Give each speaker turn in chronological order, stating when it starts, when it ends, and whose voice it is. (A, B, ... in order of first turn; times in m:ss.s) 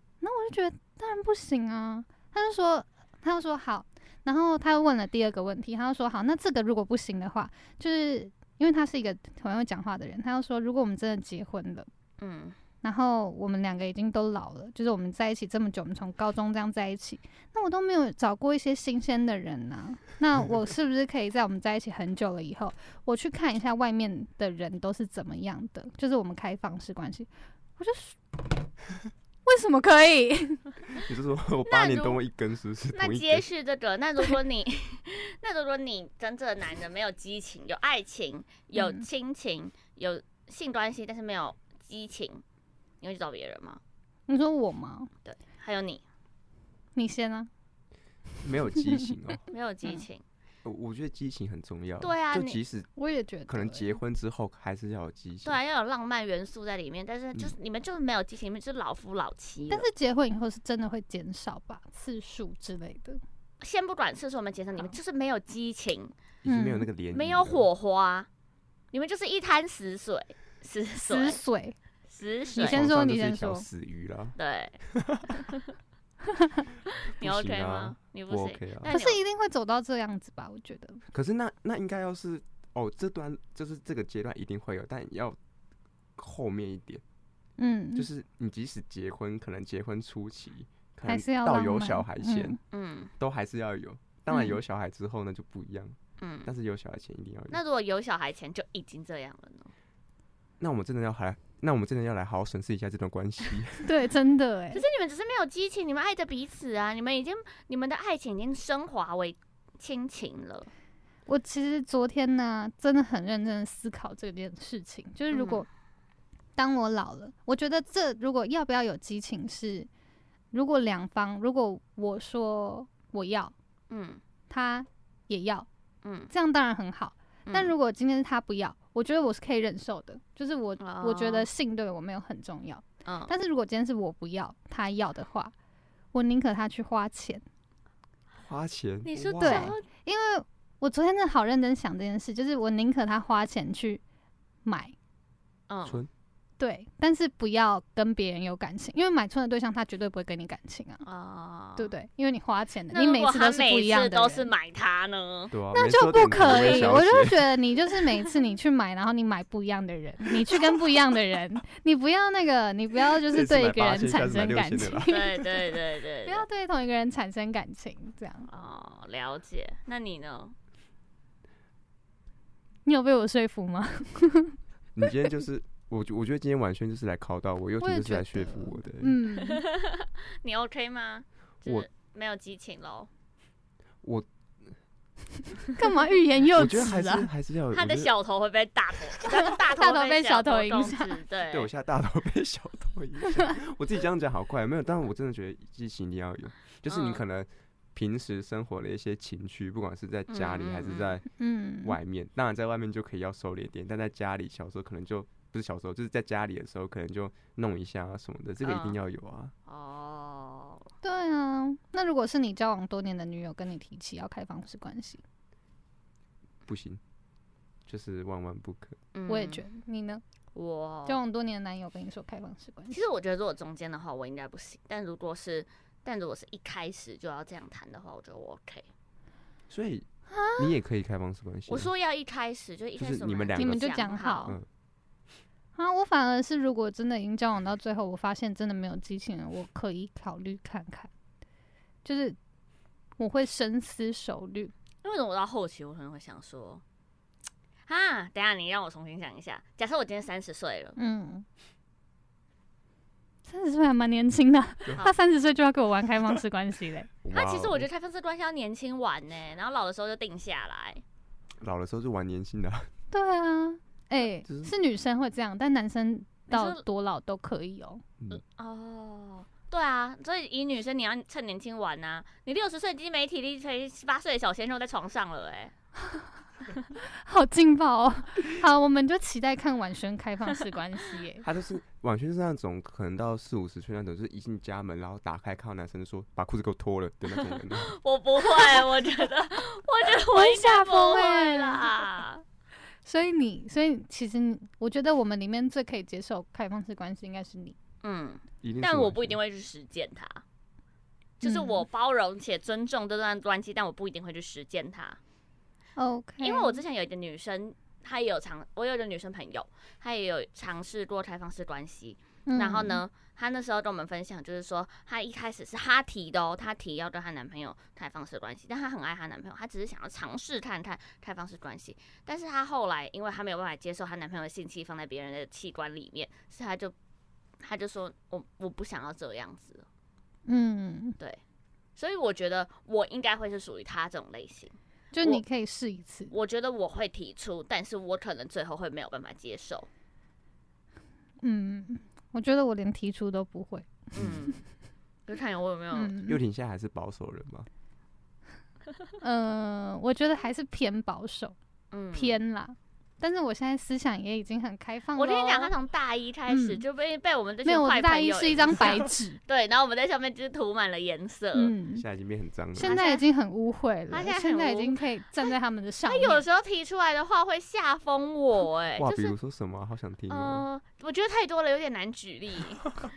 0:00.2-0:11.9 A
0:12.2-0:12.6 B
0:12.8-0:28.2 A
0:29.5-0:31.0 A
0:31.0-0:33.4 C
0:31.7-0:32.2 B
0:32.9-0:42.4 B
0:38.8-0:39.1 A
0:43.0-0:43.8 B
0:44.3-0:45.1 A
0:45.2-0:46.0 B
0:46.9-0:47.5 A
0:48.4-0:49.4 C
0:49.5-0:50.2 B
0:50.6-0:52.9 C
0:52.0-0:52.6 B
0:53.0-0:53.9 A
0:53.5-0:55.6 C
0:55.4-0:59.9 B
0:59.7-1:03.2 A
1:03.6-1:06.1 B
1:06.4-1:07.7 C
1:06.5-1:06.9 A
1:07.1-1:08.3 B
1:08.9-1:11.4 B
1:11.0-1:11.8 A
1:12.1-1:12.8 B
1:12.5-1:13.6 A
1:12.6-1:14.4 C
1:14.4-1:14.8 B
1:14.9-1:15.4 C
1:17.2-1:19.2 B
1:17.2-1:18.9 C
1:18.8-1:21.0 A
1:21.1-1:25.4 C
1:26.2-1:27.0 C
1:27.6-1:28.1 A
1:27.9-1:32.6 C
1:31.0-1:32.6 A
1:32.7-1:33.1 B
1:33.2-1:37.6 C
1:34.3-1:34.6 A
1:36.2-1:36.5 B
1:37.5-1:39.7 B
1:40.6-1:43.9 C
1:43.8-1:44.8 A
1:44.7-1:50.7 B
1:51.3-1:55.7 A
1:55.3-1:55.6 B
1:56.6-1:59.9 A
2:00.5-2:03.5 A
2:03.9-2:04.2 B
2:04.5-2:05.7 A
2:06.0-2:06.3 B
2:06.3-2:15.5 A
2:07.5-2:07.7 B
2:10.8-2:11.5 B
2:13.1-2:13.3 B
2:16.1-2:17.4 A
2:18.4-2:19.7 C
2:19.0-2:19.8 B
2:19.4-2:24.0 A
2:24.6-2:24.9 A
2:25.7-2:26.0 B
2:26.6-2:31.0 A
2:31.0-2:31.9 B
2:31.8-2:34.5 A
2:32.9-2:35.5 B
2:35.5-2:37.5 C
2:35.7-2:45.5 A
2:36.1-2:37.0 B
2:43.3-2:45.1 C
2:45.1-2:46.4 B
2:46.3-2:48.5 A
2:48.5-2:50.6 B
2:52.8-2:54.6 A
2:54.9-2:59.2 C
2:57.8-2:59.6 A
2:59.4-3:03.1 B
3:05.8-3:07.3 A
3:06.6-3:08.1 C
3:07.7-3:11.7 B
3:09.4-3:11.2 A
3:11.5-3:21.3 C
3:16.9-3:17.2 B
3:20.3-3:21.1 B
3:21.4-3:22.0 A
3:21.8-3:29.6 C
3:28.6-3:29.0 B
3:29.7-3:30.9 B
3:31.0-3:35.2 A
3:36.6-3:37.0 C
3:37.9-3:39.0 C
3:39.1-3:39.6 B
3:39.3-3:40.2 A
3:40.6-3:41.2 B
3:41.1-3:43.0 A
3:42.9-3:48.9 B
3:49.7-3:51.9 C
3:50.3-3:50.8 A
3:51.7-3:54.6 B
3:53.0-3:54.7 C
3:53.6-3:54.6 A
3:55.8-4:01.1 A
4:02.0-4:02.4 A
4:03.2-4:04.7 A
4:05.0-4:06.8 B
4:07.9-4:11.0 B
4:11.0-4:11.4 A
4:13.5-4:17.1 A
4:17.2-4:17.9 C
4:17.3-4:21.0 B
4:21.6-4:22.9 C
4:23.1-4:28.0 A
4:24.5-4:24.7 C
4:26.5-4:26.8 B
4:28.3-4:35.7 B
4:37.0-4:41.4 A
4:41.4-4:47.9 C
4:47.3-4:52.4 B
4:50.2-4:52.0 A
4:53.0-4:57.8 A
4:58.0-5:00.4 B
4:58.6-4:59.4 C
5:01.4-5:05.2 B
5:01.4-5:01.8 A
5:06.0-5:06.8 A
5:06.4-5:26.9 B
5:12.5-5:13.0 A
5:27.6-5:29.9 B
5:30.5-5:31.2 A
5:32.0-5:35.4 B
5:35.1-5:36.3 A
5:36.3-5:39.9 B
5:41.4-5:44.4 A
5:44.1-5:44.6 B
5:45.3-5:46.2 B
5:45.9-5:46.4 A
5:46.3-5:47.7 C
5:49.2-5:51.6 A
5:51.9-5:52.4 B
5:52.1-5:55.7 A
5:55.2-6:01.8 B
5:56.5-5:56.8 A
5:57.6-5:59.4 A
6:01.6-6:02.0 A
6:01.9-6:03.0 C
6:02.8-6:06.4 A
6:02.8-6:03.2 B
6:04.1-6:05.0 B
6:06.1-6:09.4 B
6:09.0-6:10.6 C
6:10.3-6:12.9 B